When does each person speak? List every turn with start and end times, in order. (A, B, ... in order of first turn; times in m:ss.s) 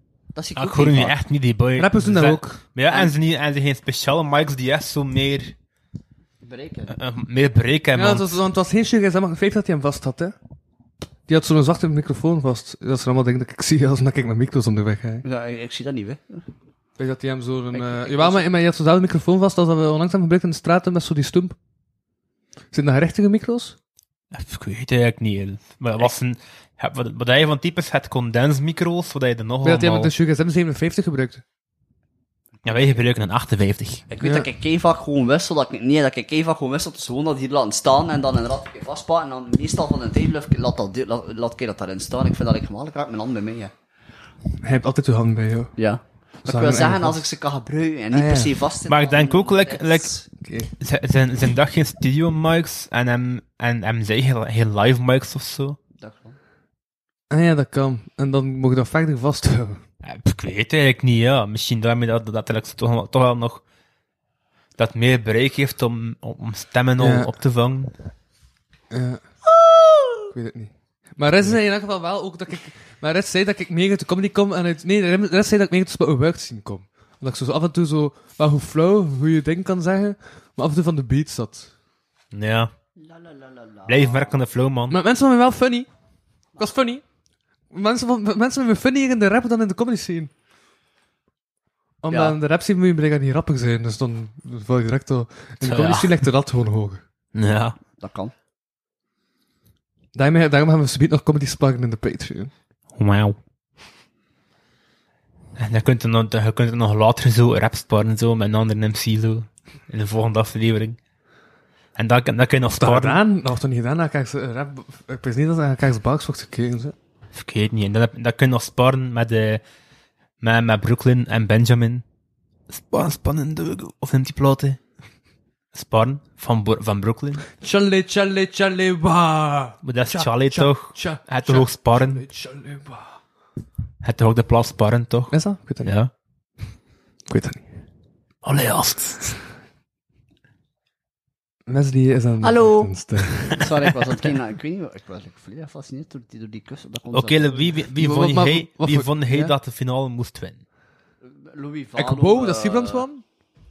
0:00.3-0:01.1 A
0:00.6-0:05.5 B
0:01.8-0:02.6 C
0:06.4-0:07.0 A
0:06.9-0:08.3 B
0:08.0-0:10.3 C
0:11.3-0:15.2 C
0:15.2-0:16.4 A
0:17.0-0:21.6 C
0:17.7-0:18.4 A
0:22.7-0:23.8 C
0:24.3-0:30.1 B
0:29.6-0:31.4 C
0:32.6-0:33.0 A
0:32.6-0:34.0 B
0:34.1-0:43.7 A
0:44.6-0:45.7 C
0:45.8-0:50.3 A
0:46.4-0:47.2 C
0:48.1-0:48.5 C
0:48.9-0:50.1 B
0:50.4-0:50.7 C
0:50.8-0:55.8 B
0:56.0-0:56.4 A
0:57.3-0:59.8 C
1:00.0-1:03.6 B
1:04.8-1:07.9 B
1:07.0-1:07.3 C
1:08.9-1:09.2 C
1:09.7-1:10.3 A
1:10.3-1:21.7 C
1:22.3-1:22.7 B
1:23.0-1:24.4 A
1:23.9-1:25.0 B
1:24.9-1:25.9 C
1:26.6-1:27.0 C
1:27.7-1:30.3 C
1:32.0-1:37.0 C
1:32.1-1:32.4 A
1:35.6-1:36.1 B
1:37.3-1:37.8 B
1:38.0-1:38.3 A
1:40.1-1:42.5 C
1:43.0-1:43.4 B
1:45.6-1:51.0 B
1:52.0-1:53.2 B
1:52.8-1:57.0 C
1:57.3-1:59.6 B
2:00.4-2:02.0 B
2:02.7-2:04.8 B
2:05.7-2:07.5 B
2:07.6-2:13.2 C
2:09.8-2:12.2 B
2:14.0-2:16.1 B
2:15.3-2:15.9 C
2:17.3-2:17.6 C
2:18.4-2:19.4 B
2:21.7-2:23.7 C
2:22.4-2:22.9 A
2:23.5-2:27.7 A
2:27.1-2:30.6 B
2:28.0-2:29.5 C
2:31.2-2:33.0 A
2:32.0-2:33.2 C